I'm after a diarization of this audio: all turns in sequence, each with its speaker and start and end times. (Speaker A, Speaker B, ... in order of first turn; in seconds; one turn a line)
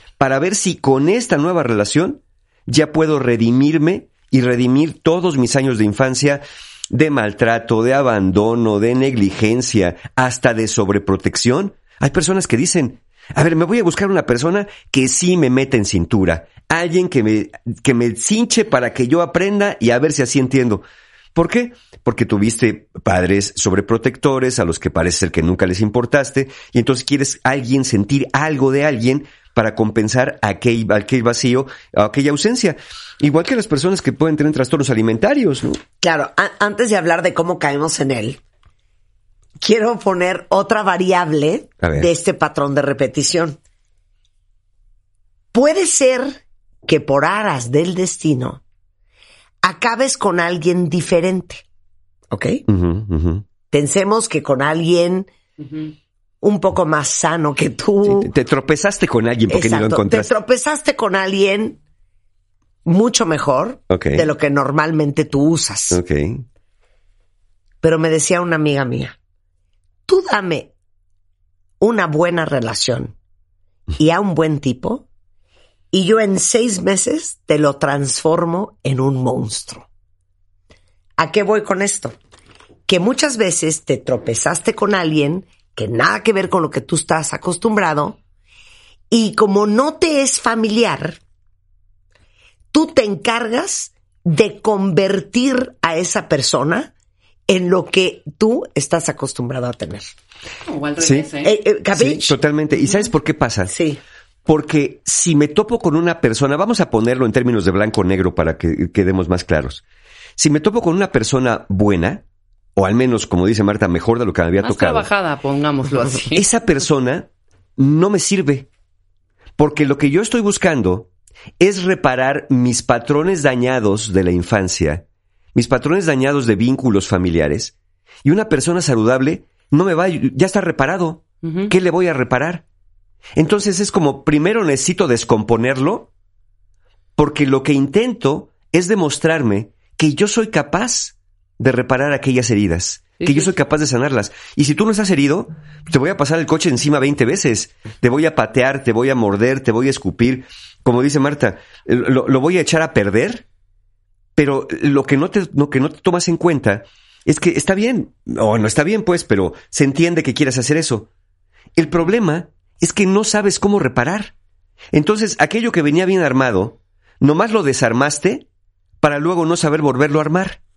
Speaker A: 0.2-20.8
Speaker A: 21.3-35.8
Speaker B: 36.0-38.4
Speaker B: 39.6-43.6
Speaker A: 41.8-42.1
Speaker B: 45.5-48.6
Speaker B: 49.6-51.6
Speaker B: 52.3-52.6
Speaker A: 52.7-53.4
Speaker B: 53.7-55.3
Speaker B: 56.4-58.3
Speaker A: 58.0-60.3
Speaker B: 59.5-61.8
Speaker B: 62.8-66.0
Speaker A: 63.9-64.3
Speaker A: 65.9-66.4
Speaker B: 67.8-69.2
Speaker B: 70.1-70.7
Speaker B: 71.8-73.1
Speaker B: 74.0-75.0
Speaker B: 75.9-79.9
Speaker B: 81.2-82.2
Speaker B: 82.9-88.2
Speaker B: 89.1-91.2
Speaker B: 92.7-96.9
Speaker B: 97.5-100.0
Speaker C: 100.7-101.5
Speaker A: 101.0-101.3
Speaker B: 101.4-102.3
Speaker A: 101.9-103.7
Speaker B: 103.7-104.0
Speaker A: 104.5-109.8
Speaker A: 110.4-112.2
Speaker A: 112.8-115.1
Speaker C: 114.6-116.4
Speaker A: 116.3-118.7
Speaker A: 119.6-127.7
Speaker A: 128.2-132.6
Speaker C: 131.4-131.7
Speaker A: 133.3-136.1
Speaker A: 137.2-153.4
Speaker C: 143.2-143.5
Speaker A: 154.3-161.1
Speaker A: 161.8-164.3
Speaker A: 164.9-168.4
Speaker A: 169.0-170.6